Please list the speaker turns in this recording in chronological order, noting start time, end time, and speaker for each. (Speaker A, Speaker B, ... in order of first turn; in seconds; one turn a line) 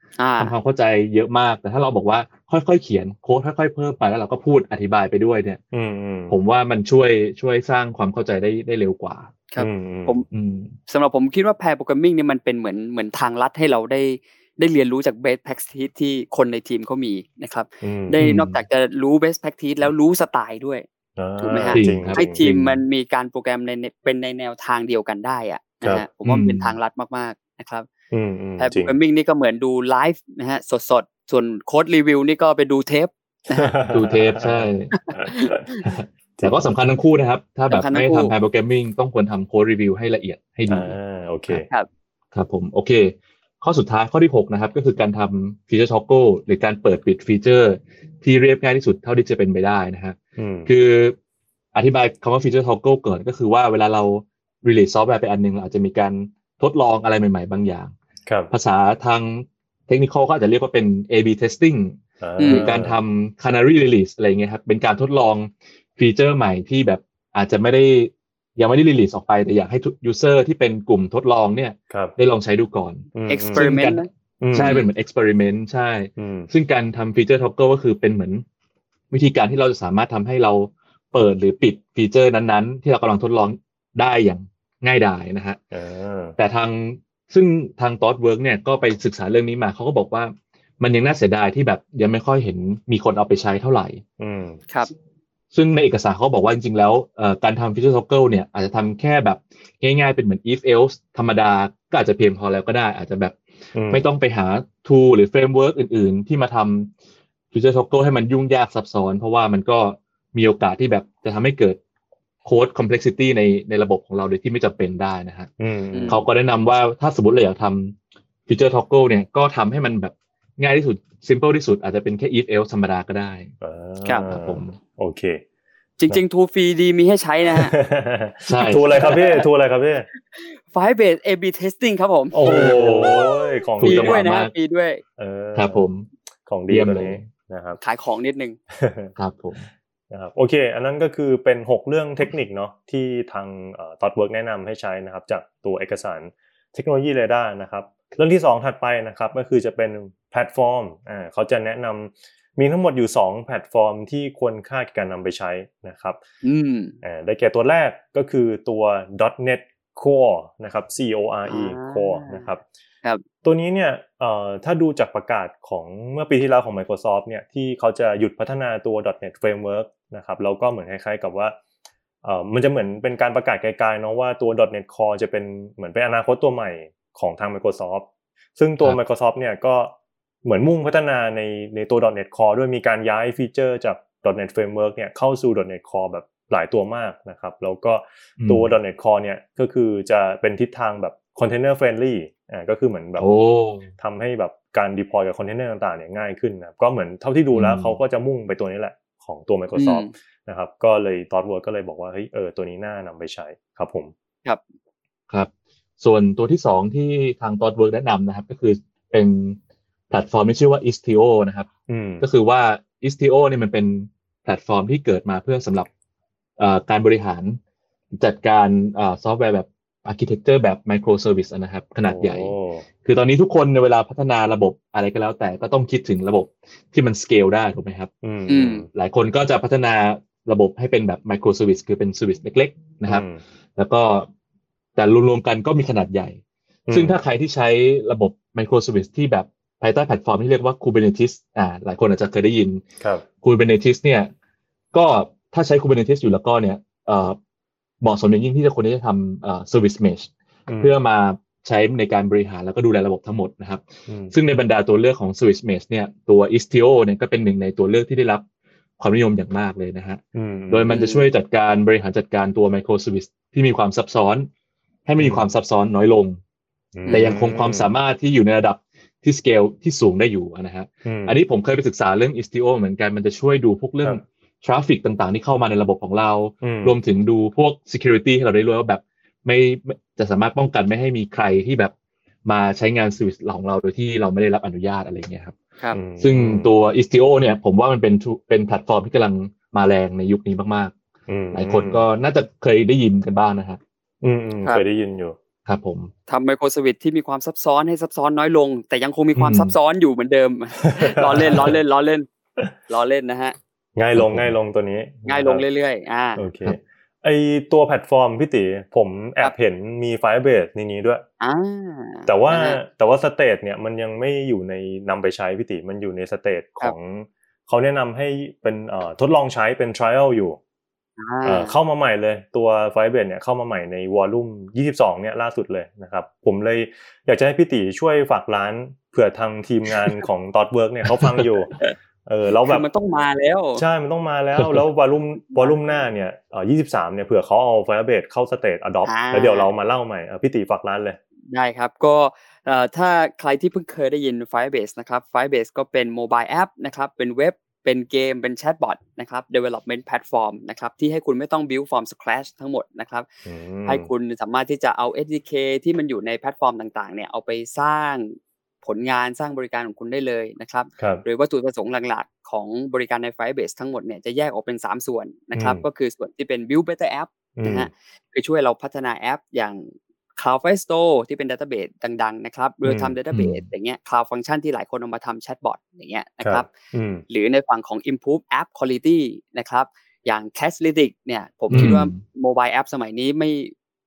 Speaker A: 0.2-0.5
Speaker B: 0.4-5.6
Speaker C: 5.7-6.4
Speaker B: 6.3-9.3
Speaker A: 9.5-10.2
Speaker C: 9.6-10.2
Speaker B: 10.3-10.7
Speaker A: 10.9-20.9
Speaker C: 17.8-18.2
Speaker B: 18.2-18.6
Speaker C: 21.2-22.4
Speaker A: 21.4-27.9
Speaker B: 21.7-22.8
Speaker B: 26.2-26.8
Speaker C: 28.1-28.9
Speaker A: 28.6-33.7
Speaker C: 33.5-35.4
Speaker B: 33.9-34.9
Speaker A: 34.9-35.9
Speaker B: 35.9-40.9
Speaker C: 36.4-36.7
Speaker A: 37.7-38.3
Speaker C: 40.7-41.7
Speaker A: 41.5-41.9
Speaker B: 42.3-51.2
Speaker C: 50.4-50.7
Speaker B: 51.7-57.9
Speaker C: 58.3-58.5
Speaker B: 58.5-74.0
Speaker C: 62.2-63.0
Speaker A: 62.4-62.7
Speaker C: 71.9-72.2
Speaker C: 73.2-73.7
Speaker A: 73.3-74.1
Speaker C: 74.4-74.8
Speaker B: 74.5-78.4
Speaker A: 74.6-74.9
Speaker C: 76.2-76.5
Speaker B: 79.1-85.6
Speaker C: 85.7-86.4
Speaker B: 86.4-94.0
Speaker C: 94.2-94.6
Speaker B: 95.5-103.4
Speaker C: 103.7-104.0
Speaker B: 103.9-106.9
Speaker B: 107.5-111.8
Speaker B: 112.5-115.5
Speaker C: 115.6-116.2
Speaker A: 115.9-116.2
Speaker B: 116.1-123.5
Speaker C: 123.6-125.4
Speaker B: 124.3-124.8
Speaker A: 126.0-127.7
Speaker C: 127.5-130.1
Speaker B: 128.5-128.9
Speaker A: 128.9-129.4
Speaker A: 130.3-135.0
Speaker C: 132.3-134.2
Speaker B: 132.4-133.3
Speaker B: 133.8-134.5
Speaker C: 135.2-135.8
Speaker B: 135.6-136.1
Speaker C: 136.5-137.8
Speaker B: 136.7-137.2
Speaker A: 137.8-138.6
Speaker C: 138.7-139.1
Speaker B: 139.2-139.7
Speaker C: 140.1-156.2
Speaker A: 156.4-156.9
Speaker C: 157.0-162.6
Speaker A: 161.5-162.5
Speaker C: 163.4-171.6
Speaker C: 172.2-193.3
Speaker B: 188.4-188.7
Speaker B: 193.2-193.9
Speaker C: 194.0-204.1
Speaker B: 197.5-198.0
Speaker A: 199.8-200.1
Speaker B: 205.3-209.6
Speaker B: 210.1-211.7
Speaker C: 211.9-212.2
Speaker B: 212.2-215.9
Speaker B: 216.6-217.6
Speaker B: 218.1-222.5
Speaker C: 222.0-222.9
Speaker B: 223.0-228.1
Speaker C: 228.2-228.9
Speaker A: 228.5-228.8
Speaker B: 228.9-233.2
Speaker C: 233.1-233.4
Speaker B: 233.8-234.3
Speaker B: 235.0-236.4
Speaker C: 236.9-237.2
Speaker B: 236.9-242.8
Speaker B: 243.4-244.3
Speaker B: 244.9-247.4
Speaker B: 248.0-258.4
Speaker C: 250.7-250.9
Speaker C: 254.1-254.3
Speaker B: 259.0-264.5
Speaker C: 260.4-260.9
Speaker A: 260.9-261.3
Speaker B: 265.1-266.4
Speaker C: 265.2-265.5
Speaker C: 267.0-267.9
Speaker A: 267.1-267.3
Speaker B: 267.1-281.9
Speaker C: 271.1-271.4
Speaker C: 276.6-277.0
Speaker B: 282.4-285.6
Speaker C: 285.9-286.7
Speaker B: 286.2-290.9
Speaker C: 291.3-292.0
Speaker B: 291.5-293.8
Speaker C: 294.2-295.4
Speaker B: 295.7-296.1
Speaker A: 296.3-302.3
Speaker B: 299.4-299.7
Speaker C: 300.9-301.8
Speaker A: 302.9-303.6
Speaker C: 304.0-305.6
Speaker B: 304.2-304.5
Speaker A: 305.3-306.4
Speaker C: 306.4-311.2
Speaker A: 311.4-312.8
Speaker C: 312.3-320.6
Speaker A: 321.2-321.8
Speaker C: 321.4-332.9
Speaker B: 331.1-331.4
Speaker A: 332.6-333.8
Speaker C: 333.8-341.2
Speaker A: 335.6-336.0
Speaker A: 339.1-339.7
Speaker A: 341.5-353.3
Speaker C: 353.5-354.1
Speaker A: 353.9-376.7
Speaker C: 361.0-361.2
Speaker C: 365.6-365.8
Speaker C: 367.6-367.9
Speaker C: 372.9-373.1
Speaker B: 373.3-373.6
Speaker C: 376.4-377.2
Speaker A: 377.3-383.7
Speaker B: 381.7-382.2